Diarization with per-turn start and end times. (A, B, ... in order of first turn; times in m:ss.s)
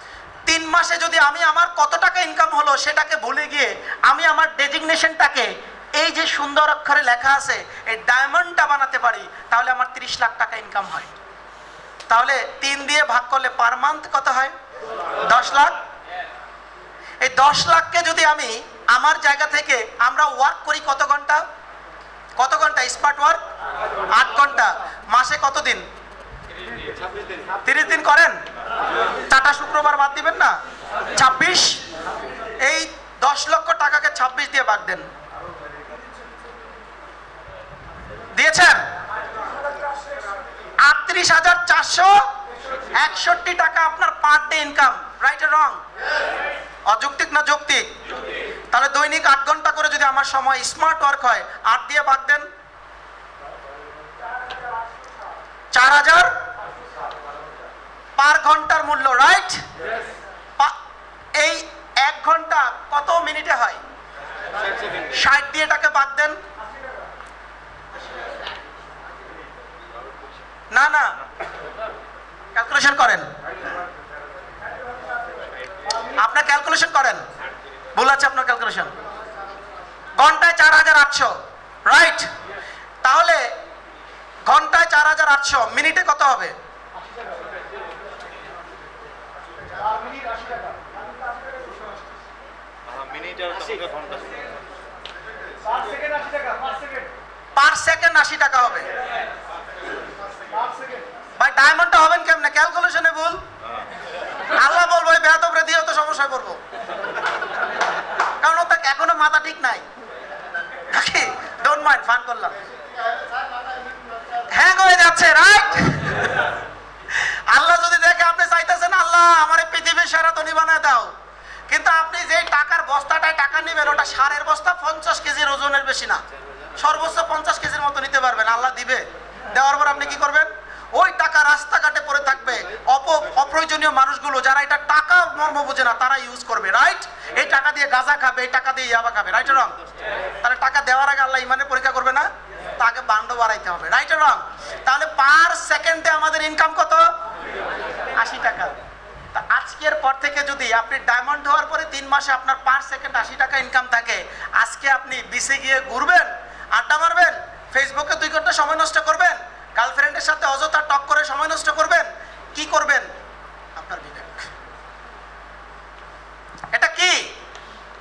0:00.5-0:11.1 A
0:12.1-0:14.5 A
0:15.3-0:15.8 A
0:17.2-0:21.4 A
0:22.4-0:23.4 A
0:24.2-0:25.8 A
0:27.6-0:28.4 A
0:29.3-0:30.6 A
0:31.2-0:31.8 A
0:32.6-0:35.1 A
0:38.3-0:38.8 A
0:40.8-0:42.2 A
0:43.0-0:45.8 A
0:46.9-0:47.9 A
0:48.7-0:52.5 A
0:55.7-0:56.3 A
0:58.2-0:59.6 A
1:01.4-1:03.8 A
1:05.1-1:06.4 A
1:10.7-1:11.1 A
1:12.6-1:13.3 A
1:16.2-1:17.2 A
1:18.0-1:18.9 A
1:20.2-1:21.4 A
1:21.9-1:22.3 A
1:23.0-1:23.4 A
1:24.5-1:26.6 A
1:37.6-1:38.9 A
1:41.4-1:43.4 A
1:44.5-1:46.6 A
1:48.4-1:49.8 A
1:50.9-1:52.6 A
1:54.5-1:56.4 A
1:57.1-2:01.1 A
2:01.7-2:06.2 A
2:06.8-2:19.7 A
2:20.4-2:27.1 A
2:28.2-2:28.8 A
2:29.3-2:43.1 A
2:43.8-2:44.5 A
2:46.7-2:47.3 A